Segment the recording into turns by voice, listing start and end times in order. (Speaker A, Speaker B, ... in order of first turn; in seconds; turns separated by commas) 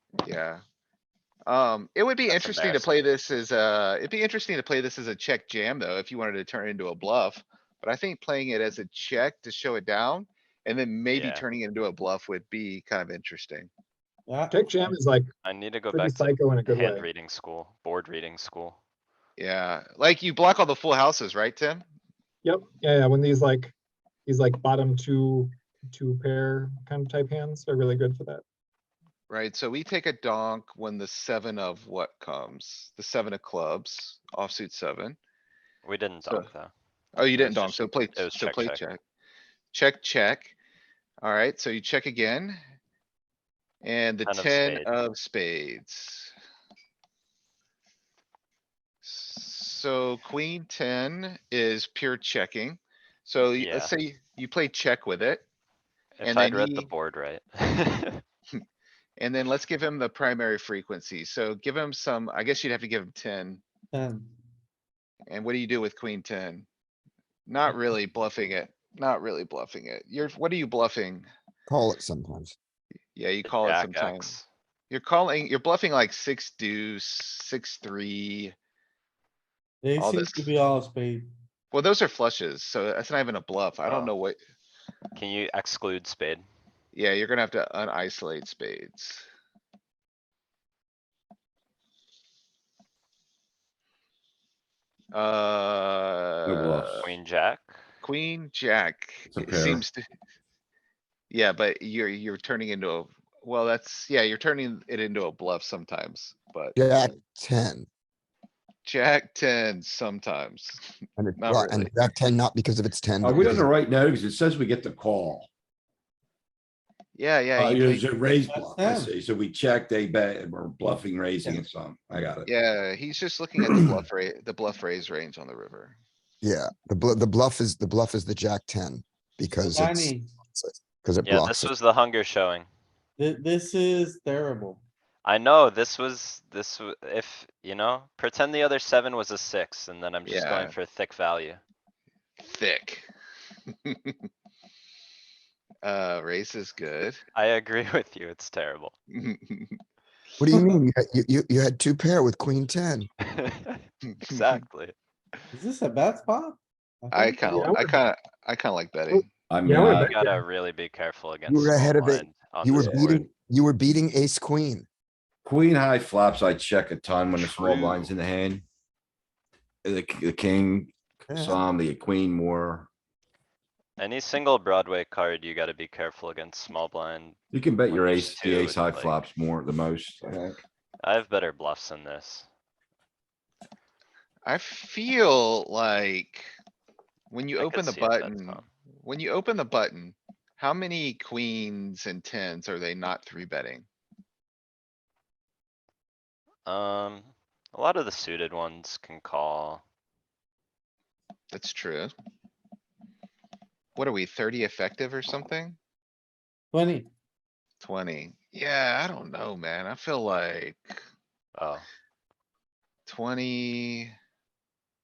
Speaker A: 0.2-0.6, Speaker A: 1.4-13.7, Speaker B: 2.3-3.0, Speaker B: 11.1-11.4, Speaker C: 14.3-15.0, Speaker D: 14.5-15.3, Speaker B: 15.4-18.8, Speaker D: 15.9-17.1, Speaker A: 19.4-21.8, Speaker D: 22.4-23.7, Speaker D: 24.3-28.4, Speaker A: 29.3-35.2, Speaker B: 35.8-36.7, Speaker A: 37.1-39.0, Speaker B: 37.4-38.8, Speaker A: 39.7-40.5, Speaker A: 41.2-42.6, Speaker A: 43.8-46.3, Speaker B: 44.2-44.9, Speaker A: 49.0-55.4, Speaker B: 53.6-53.9, Speaker B: 56.2-58.2, Speaker A: 56.2-56.9, Speaker A: 59.2-63.6, Speaker C: 63.9-64.3, Speaker A: 65.3-66.7, Speaker A: 67.5-71.3, Speaker E: 71.7-72.5, Speaker A: 73.1-74.3, Speaker B: 73.4-74.4, Speaker A: 74.9-78.5, Speaker C: 79.8-81.3, Speaker A: 80.0-80.5, Speaker A: 81.7-84.4, Speaker B: 83.8-84.1, Speaker B: 85.1-86.5, Speaker A: 86.9-89.2, Speaker A: 95.1-97.0, Speaker F: 96.5-97.1, Speaker B: 97.0-97.8, Speaker A: 98.0-100.0, Speaker F: 99.3-99.8, Speaker A: 101.3-107.1, Speaker E: 106.8-107.9, Speaker A: 108.8-110.9, Speaker E: 111.2-113.7, Speaker A: 111.4-111.9, Speaker F: 113.2-115.5, Speaker A: 117.1-118.1, Speaker F: 117.5-122.5, Speaker C: 118.4-119.1, Speaker A: 122.5-126.0, Speaker F: 123.7-123.9, Speaker E: 126.4-131.7, Speaker C: 129.7-130.3, Speaker B: 131.2-132.7, Speaker C: 133.2-134.8, Speaker B: 135.2-141.6, Speaker A: 140.2-140.8, Speaker A: 142.4-143.1, Speaker A: 143.7-144.2, Speaker A: 145.8-147.2, Speaker B: 147.3-148.9, Speaker A: 149.1-149.8, Speaker E: 150.4-153.1, Speaker B: 153.3-154.9, Speaker A: 154.1-154.6, Speaker C: 155.5-157.7, Speaker A: 157.1-159.2, Speaker D: 157.4-158.0, Speaker D: 159.1-160.4, Speaker F: 159.5-160.2, Speaker B: 160.1-163.2, Speaker E: 161.5-164.8, Speaker F: 162.7-163.2, Speaker F: 165.4-168.6, Speaker A: 167.3-168.1, Speaker F: 169.8-172.9, Speaker E: 171.3-171.6, Speaker B: 174.0-177.4, Speaker F: 177.5-180.6, Speaker B: 177.9-179.2, Speaker B: 181.0-182.5, Speaker A: 184.4-186.5, Speaker A: 187.3-193.8, Speaker B: 187.6-188.7, Speaker B: 196.7-199.8, Speaker A: 201.5-202.1, Speaker A: 203.9-205.8, Speaker C: 206.7-207.1, Speaker A: 207.8-211.0, Speaker B: 211.5-211.8, Speaker A: 213.1-214.1